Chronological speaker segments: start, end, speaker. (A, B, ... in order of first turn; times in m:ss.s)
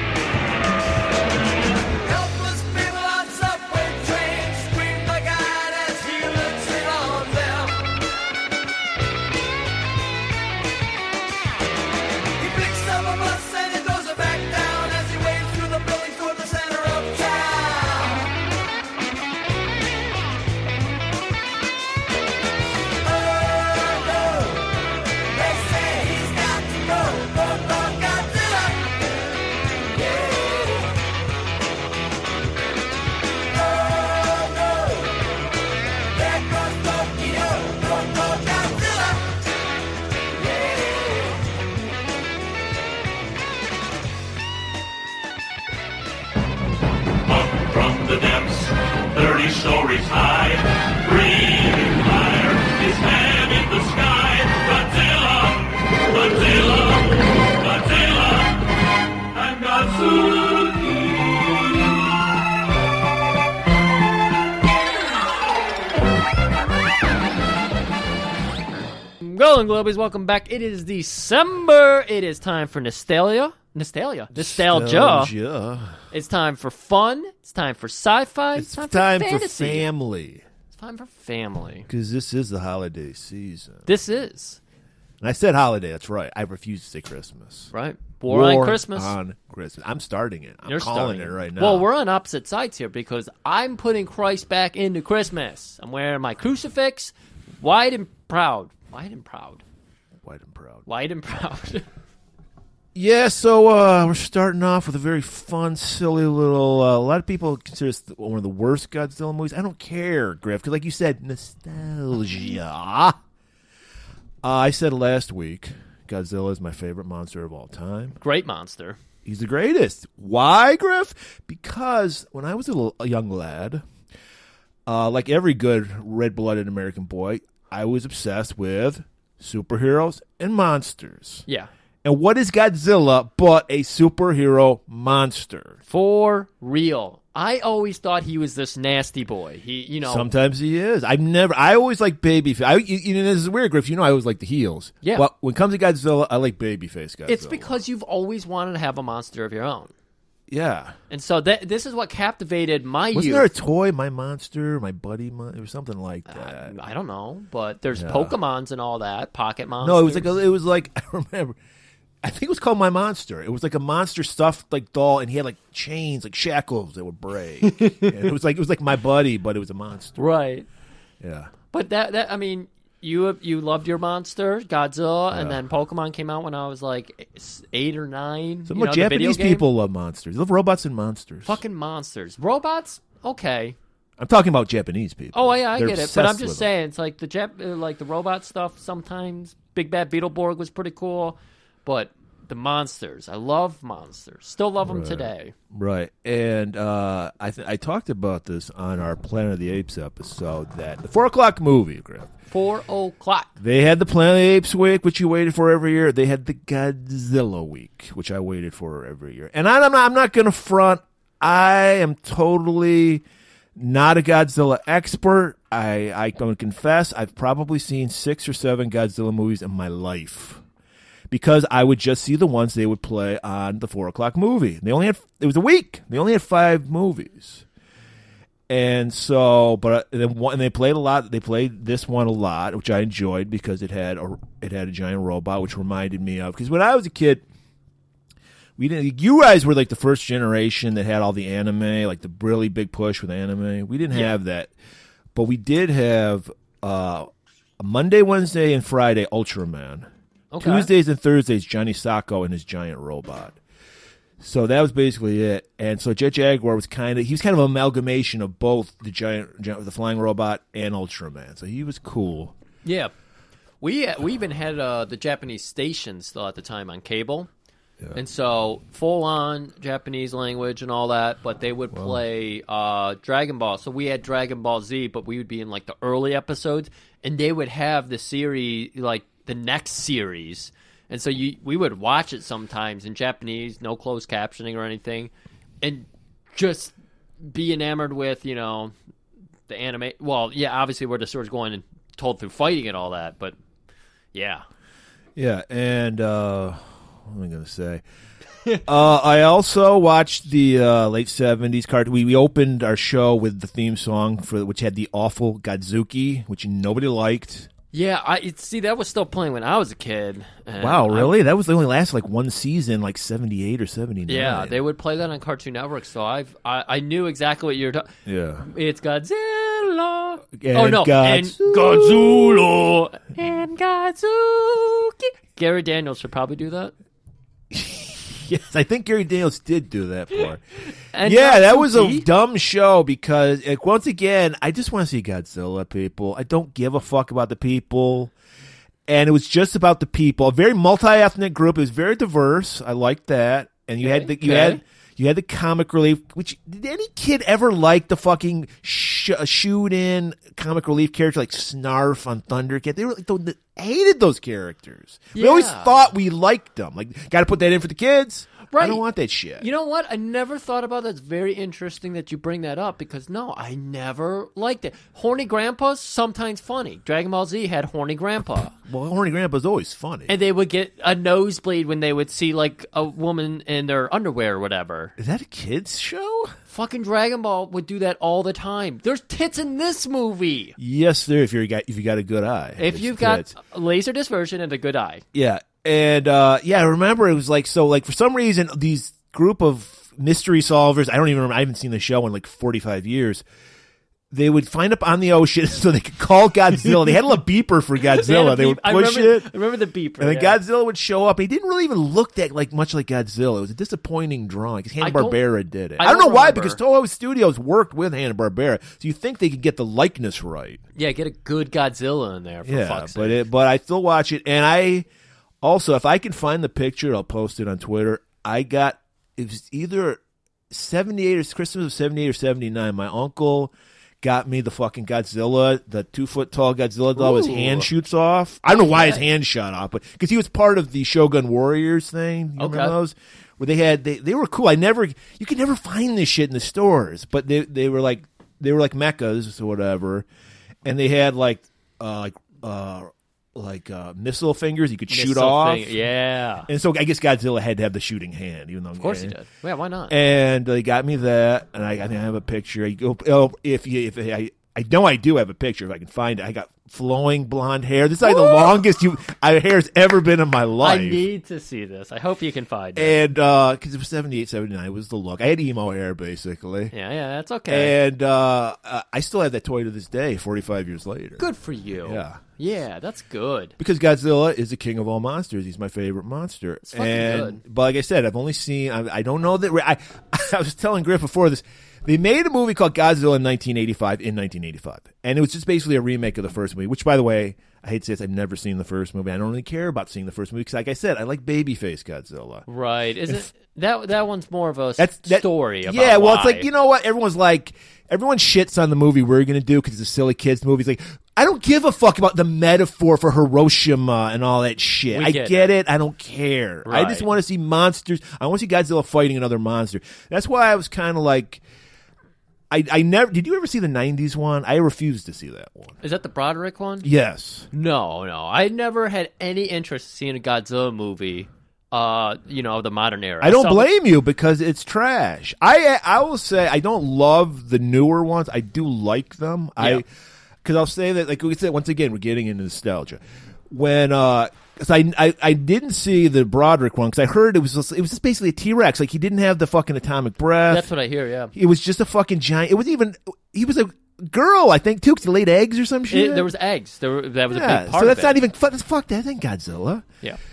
0:01.9-0:08.0 A
0:12.4-0:18.3 A
0:23.6-0:24.5 A
0:25.4-0:28.7 A
0:36.6-0:37.8 A
0:38.4-0:38.9 A
0:47.3-0:58.6 B
0:59.3-1:01.8 B
1:09.2-1:15.3 A
1:14.3-1:16.0 C
1:16.1-1:19.9 A
1:18.6-1:20.4 C
1:20.7-1:21.9 A
1:21.9-1:23.9 C
1:23.9-1:24.6 A
1:25.2-1:27.7 C
1:27.7-1:29.1 A
1:28.3-1:31.9 C
1:30.6-1:39.6 A
1:40.2-1:40.8 C
1:40.9-1:41.8 A
1:43.0-1:53.2 C
1:54.4-1:58.2 C
1:58.2-1:59.0 A
1:59.2-2:03.8 C
2:04.9-2:11.4 C
2:12.0-2:15.8 C
2:15.9-2:20.3 A
2:20.0-2:27.7 C
2:27.3-2:29.9 A
2:30.5-2:31.0 C
2:31.1-2:33.5 A
2:33.1-2:36.7 C
2:36.3-2:40.4 A
2:38.0-2:38.3 C
2:39.8-2:41.6 C
2:42.2-2:50.2 C
2:47.6-2:48.1 A
2:50.2-2:50.7 A
2:51.2-2:51.5 C
2:51.7-2:59.7 A
2:55.3-2:55.6 C
2:58.7-3:01.6 C
3:01.4-3:03.8 A
3:04.2-3:06.7 C
3:05.3-3:15.6 A
3:14.8-3:22.3 C
3:22.5-3:23.6 A
3:23.6-3:33.2 C
3:33.8-3:40.6 C
3:41.3-3:47.6 C
3:48.7-3:57.4 C
3:58.8-4:04.7 C
4:04.1-4:04.4 A
4:05.3-4:07.3 C
4:07.8-4:10.1 C
4:10.5-4:10.9 A
4:10.6-4:13.6 C
4:14.4-4:22.5 C
4:22.8-4:23.1 A
4:23.8-4:27.5 A
4:28.1-4:49.0 A
4:31.9-4:32.2 C
4:49.7-4:53.6 A
4:54.3-4:54.6 A
4:55.4-4:58.0 C
4:58.8-5:07.7 C
5:07.9-5:11.4 A
5:10.8-5:14.8 C
5:14.3-5:18.1 A
5:18.3-5:18.7 C
5:18.6-5:26.9 A
5:20.6-5:22.6 C
5:27.7-5:30.6 C
5:31.1-5:32.3 A
5:31.2-5:38.3 C
5:39.1-5:59.6 C
5:44.0-5:44.8 A
5:55.3-5:56.0 A
5:58.7-5:59.0 A
5:59.6-6:08.8 A
6:08.9-6:10.3 C
6:10.3-6:15.2 A
6:15.2-6:16.5 C
6:16.7-6:20.8 A
6:20.8-6:23.6 C
6:22.8-6:25.2 A
6:25.3-6:33.4 C
6:34.3-6:39.5 C
6:38.0-6:40.6 A
6:40.2-6:50.8 C
6:45.0-6:45.4 A
6:46.0-6:46.8 A
6:51.0-6:53.4 A
6:52.6-6:55.1 C
6:55.6-7:20.3 C
7:07.2-7:07.9 A
7:08.7-7:09.2 A
7:12.6-7:13.0 A
7:20.8-7:26.0 C
7:25.1-7:26.7 A
7:26.7-7:29.4 C
7:29.0-7:30.2 A
7:30.1-7:41.2 C
7:38.2-7:38.7 A
7:40.8-7:43.2 A
7:43.0-7:46.9 C
7:46.9-7:48.0 A
7:47.7-7:51.4 C
7:51.4-7:53.7 A
7:52.0-7:52.4 C
7:53.8-8:12.7 C
7:56.8-7:57.6 A
8:12.7-8:16.7 A
8:15.0-8:31.6 C
8:25.1-8:25.7 A
8:26.8-8:27.3 A
8:32.7-8:36.0 C
8:36.0-8:37.1 A
8:37.0-8:37.7 C
8:37.7-8:43.9 A
8:43.4-8:50.1 C
8:49.8-8:50.0 A
8:50.6-9:00.9 C
9:00.7-9:01.5 A
9:01.5-9:06.5 C
9:06.1-9:08.4 A
9:07.5-9:10.1 C